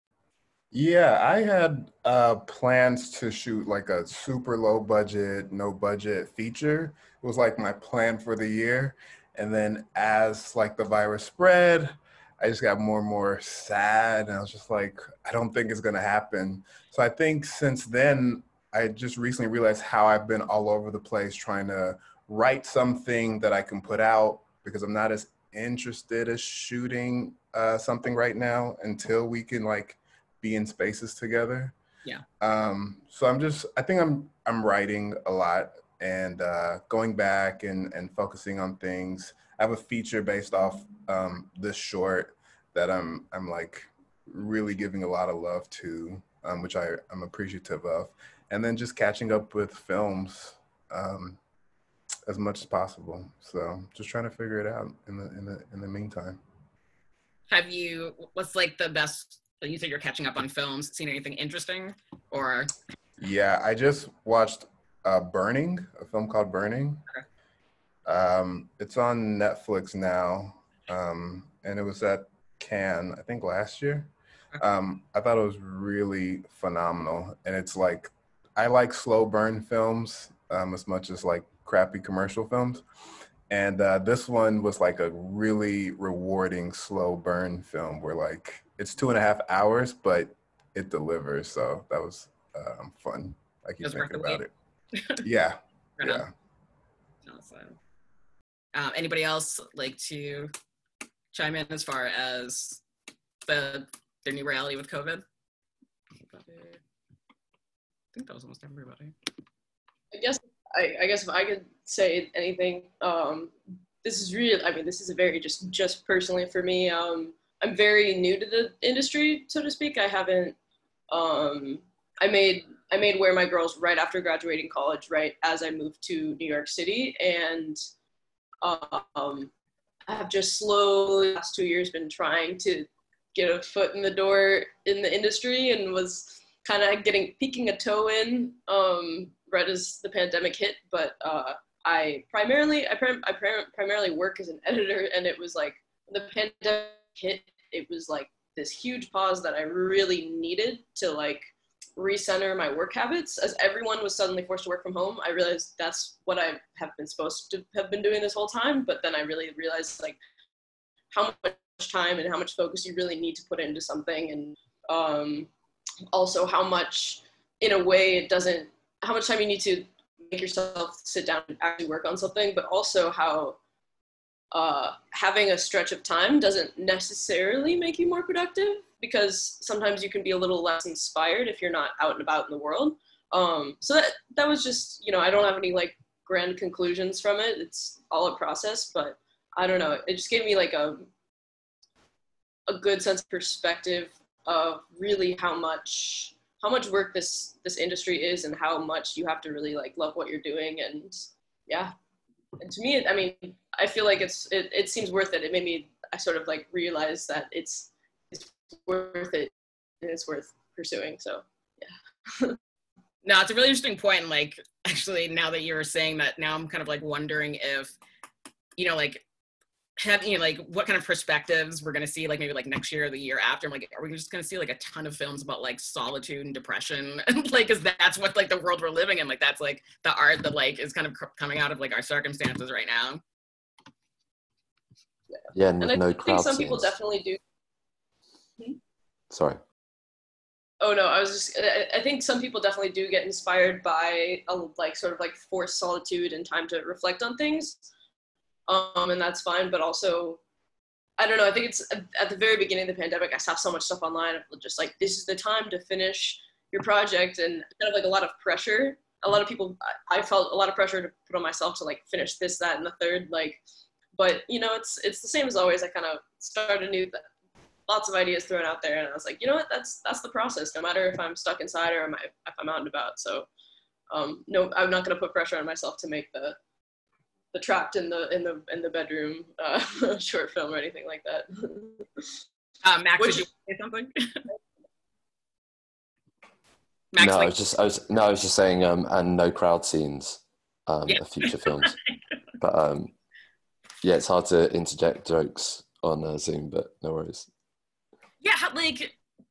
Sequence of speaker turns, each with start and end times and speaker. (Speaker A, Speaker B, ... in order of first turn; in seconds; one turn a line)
Speaker A: 0.7-31.7
Speaker A: 32.4-51.4
Speaker A: 52.3-56.4
Speaker B: 57.5-62.7
Speaker A: 63.2-67.0
Speaker A: 68.0-82.8
Speaker A: 83.5-94.5
Speaker B: 93.8-94.4
Speaker A: 95.2-96.3
Speaker B: 96.0-96.2
Speaker B: 97.2-97.8
Speaker B: 98.7-100.5
Speaker B: 101.3-102.8
Speaker B: 103.4-105.2
Speaker B: 106.2-106.8
Speaker B: 108.1-109.1
Speaker C: 110.1-120.5
Speaker C: 121.1-127.8
Speaker C: 128.6-129.5
Speaker C: 130.1-160.2
Speaker C: 161.1-165.5
Speaker C: 166.1-173.6
Speaker C: 174.5-191.1
Speaker C: 192.7-201.9
Speaker C: 202.6-212.6
Speaker B: 213.2-217.9
Speaker B: 218.8-219.2
Speaker B: 220.0-233.2
Speaker D: 235.5-236.9
Speaker C: 235.8-237.4
Speaker D: 239.3-239.6
Speaker C: 240.8-247.8
Speaker C: 248.7-250.4
Speaker C: 251.2-263.6
Speaker C: 264.1-267.3
Speaker C: 267.9-273.5
Speaker C: 274.1-276.6
Speaker C: 277.5-282.3
Speaker B: 282.8-284.4
Speaker C: 283.2-283.5
Speaker B: 287.1-287.5
Speaker D: 287.2-292.0
Speaker B: 291.1-291.9
Speaker D: 292.6-293.1
Speaker D: 294.0-297.5
Speaker B: 298.4-299.1